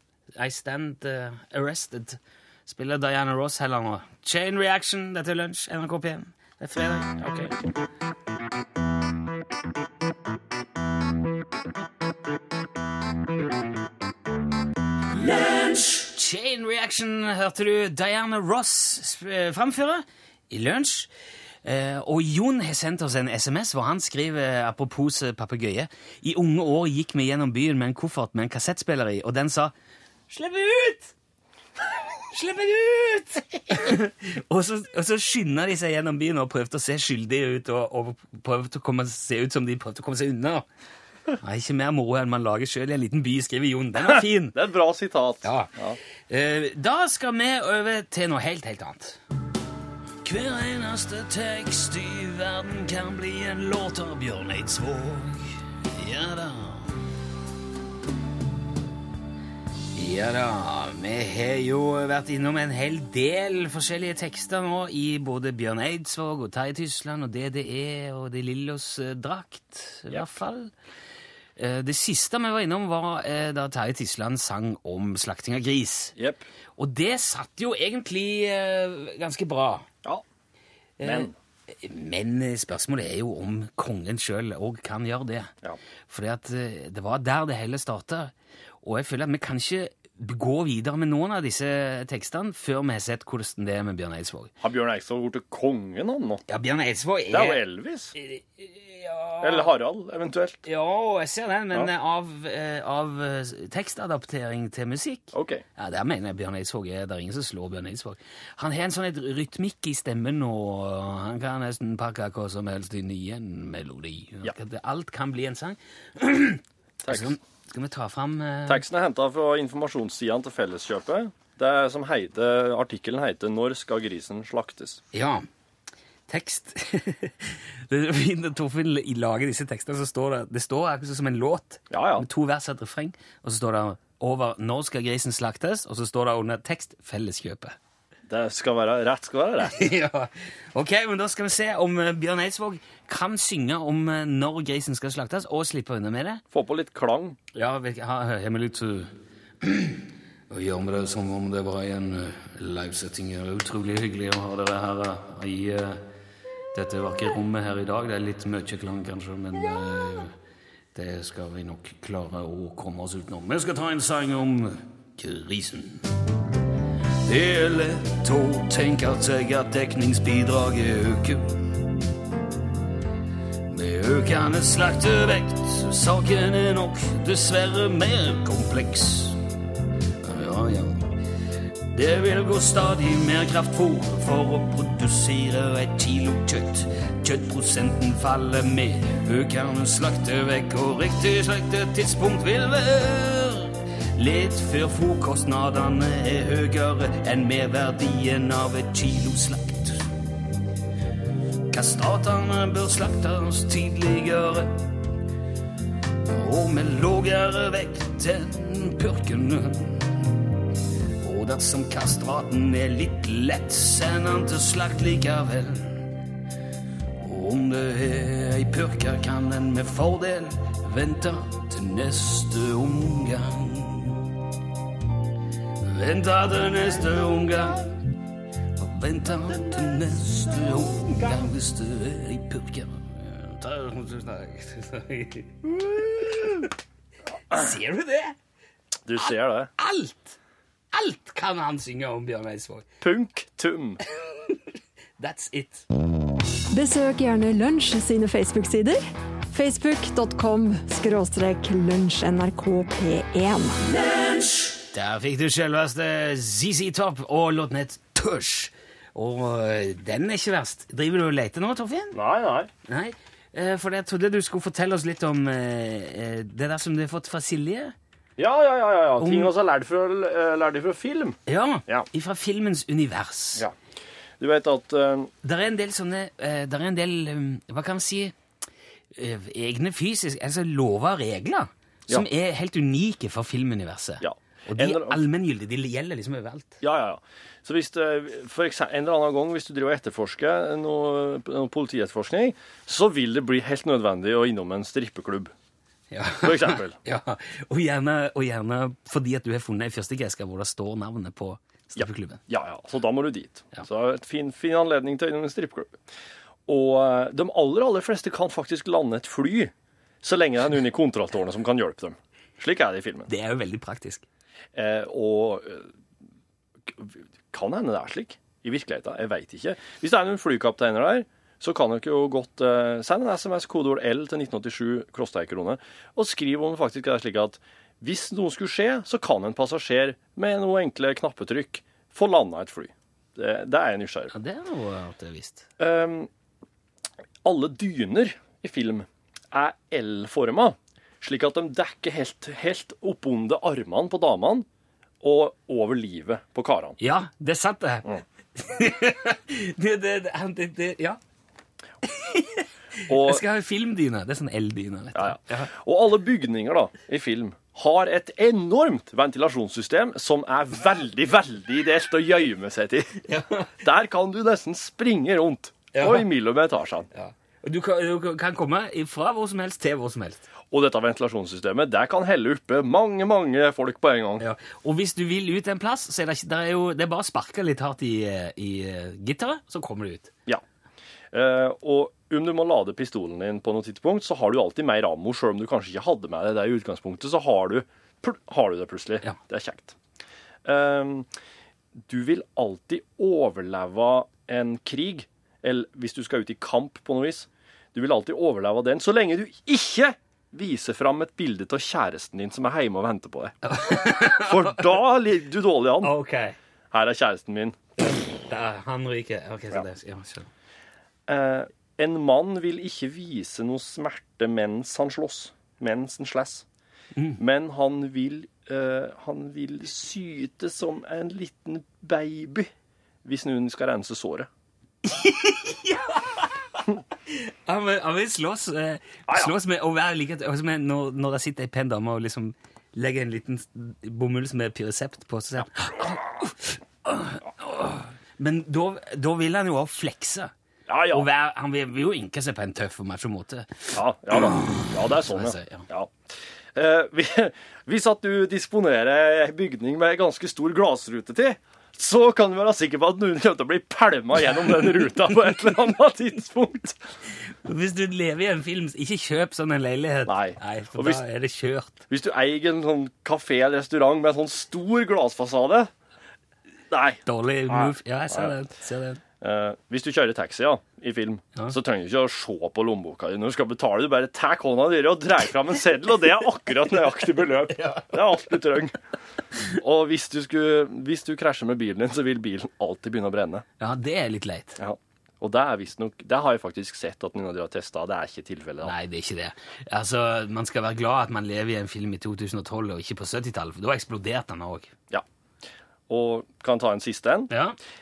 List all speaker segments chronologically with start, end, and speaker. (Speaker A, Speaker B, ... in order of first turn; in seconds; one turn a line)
Speaker A: 0.3-7.6
Speaker A: 15.2-21.1
Speaker A: 21.6-29.7
Speaker A: 30.3-31.1
Speaker A: 32.3-40.6
Speaker A: 41.4-44.6
Speaker B: 44.1-46.0
Speaker A: 45.4-45.7
Speaker A: 46.3-49.2
Speaker A: 50.2-57.0
Speaker A: 60.0-70.7
Speaker A: 71.6-76.1
Speaker B: 76.2-76.4
Speaker A: 76.8-79.9
Speaker A: 81.0-85.5
Speaker B: 81.0-81.3
Speaker A: 86.1-94.5
Speaker B: 94.6-96.4
Speaker A: 96.5-97.6
Speaker B: 97.3-98.2
Speaker A: 98.2-99.7
Speaker B: 99.4-100.6
Speaker A: 100.7-118.8
Speaker B: 105.3-105.6
Speaker B: 117.0-117.3
Speaker B: 118.7-125.0
Speaker A: 125.1-125.5
Speaker A: 126.3-137.8
Speaker B: 131.9-132.3
Speaker B: 138.3-139.9
Speaker A: 139.6-146.4
Speaker B: 146.5-147.4
Speaker A: 147.6-156.0
Speaker A: 156.7-160.3
Speaker A: 160.9-166.1
Speaker A: 167.2-171.8
Speaker A: 173.7-179.4
Speaker A: 180.2-181.2
Speaker A: 181.9-200.0
Speaker A: 201.7-204.9
Speaker A: 206.2-210.3
Speaker A: 211.2-216.2
Speaker A: 217.2-224.3
Speaker A: 225.8-228.0
Speaker A: 228.8-235.6
Speaker B: 235.7-236.4
Speaker A: 236.2-236.7
Speaker A: 237.5-238.4
Speaker B: 239.1-239.7
Speaker A: 239.2-240.4
Speaker A: 240.9-242.9
Speaker B: 243.0-244.0
Speaker A: 244.3-244.6
Speaker A: 245.2-245.8
Speaker C: 246.7-253.8
Speaker A: 254.9-262.2
Speaker B: 262.1-262.7
Speaker A: 262.9-267.9
Speaker B: 268.4-272.1
Speaker A: 269.2-269.5
Speaker A: 271.5-273.6
Speaker B: 274.4-275.3
Speaker A: 275.4-278.4
Speaker A: 279.2-286.8
Speaker B: 284.2-285.2
Speaker B: 286.8-295.5
Speaker A: 296.1-302.4
Speaker B: 296.4-297.0
Speaker B: 302.0-306.0
Speaker B: 306.7-313.3
Speaker A: 313.3-314.2
Speaker B: 314.8-315.9
Speaker B: 316.9-334.3
Speaker A: 334.3-335.7
Speaker B: 335.8-336.3
Speaker B: 337.4-344.7
Speaker B: 345.2-347.0
Speaker A: 347.0-351.2
Speaker A: 352.0-355.7
Speaker B: 353.1-353.4
Speaker B: 355.1-363.2
Speaker A: 363.3-363.7
Speaker B: 363.8-367.1
Speaker A: 365.9-366.3
Speaker A: 367.1-370.5
Speaker B: 370.7-374.4
Speaker A: 374.4-380.3
Speaker B: 381.3-390.0
Speaker B: 390.6-391.3
Speaker B: 392.0-403.6
Speaker A: 403.6-404.9
Speaker B: 404.2-406.1
Speaker A: 406.0-406.6
Speaker B: 406.9-407.8
Speaker A: 408.3-410.5
Speaker B: 411.3-416.7
Speaker B: 417.4-422.7
Speaker B: 423.2-424.5
Speaker A: 425.1-440.5
Speaker B: 429.3-429.5
Speaker B: 440.9-441.3
Speaker A: 441.1-445.9
Speaker B: 443.9-446.1
Speaker B: 446.8-457.1
Speaker A: 457.6-462.0
Speaker B: 460.3-461.2
Speaker B: 462.1-465.9
Speaker B: 466.9-468.5
Speaker A: 467.3-469.2
Speaker B: 469.4-479.0
Speaker B: 479.6-483.6
Speaker A: 483.8-484.8
Speaker B: 484.8-488.9
Speaker A: 488.8-494.9
Speaker B: 496.1-497.5
Speaker A: 497.5-497.8